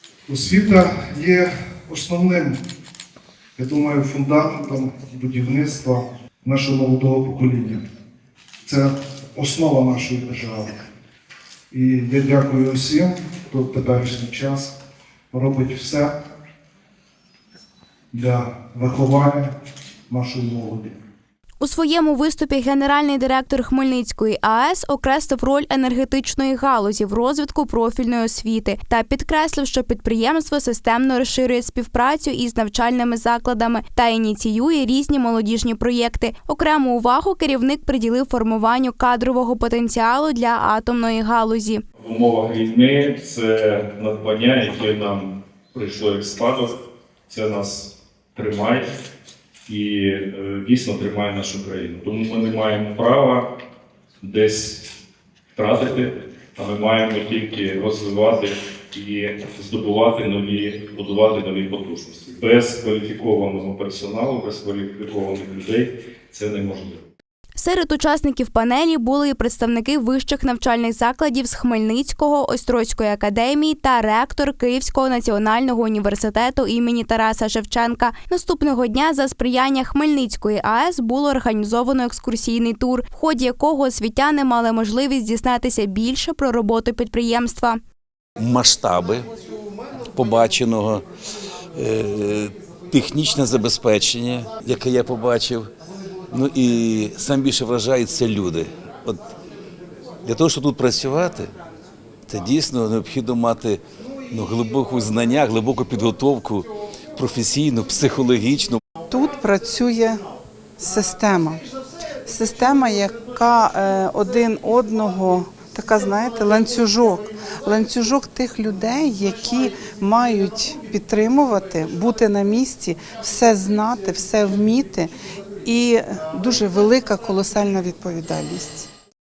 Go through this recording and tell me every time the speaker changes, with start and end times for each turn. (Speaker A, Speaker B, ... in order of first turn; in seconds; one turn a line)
Speaker A: 0.3-2.6
Speaker A: 3.5-7.8
Speaker A: 8.6-10.8
Speaker A: 11.7-14.8
Speaker A: 15.3-16.1
Speaker A: 18.1-19.5
Speaker A: 20.1-21.0
Speaker B: 21.6-41.8
Speaker C: 42.0-46.7
Speaker C: 47.3-48.9
Speaker C: 49.7-53.4
Speaker C: 54.2-54.9
Speaker C: 55.5-67.0
Speaker B: 67.5-87.8
Speaker D: 88.4-89.3
Speaker D: 90.1-91.0
Speaker D: 91.8-95.7
Speaker D: 96.3-99.2
Speaker D: 100.2-101.5
Speaker D: 102.3-108.8
Speaker E: 109.1-110.2
Speaker E: 110.8-111.6
Speaker E: 112.2-125.1
Speaker E: 125.6-128.9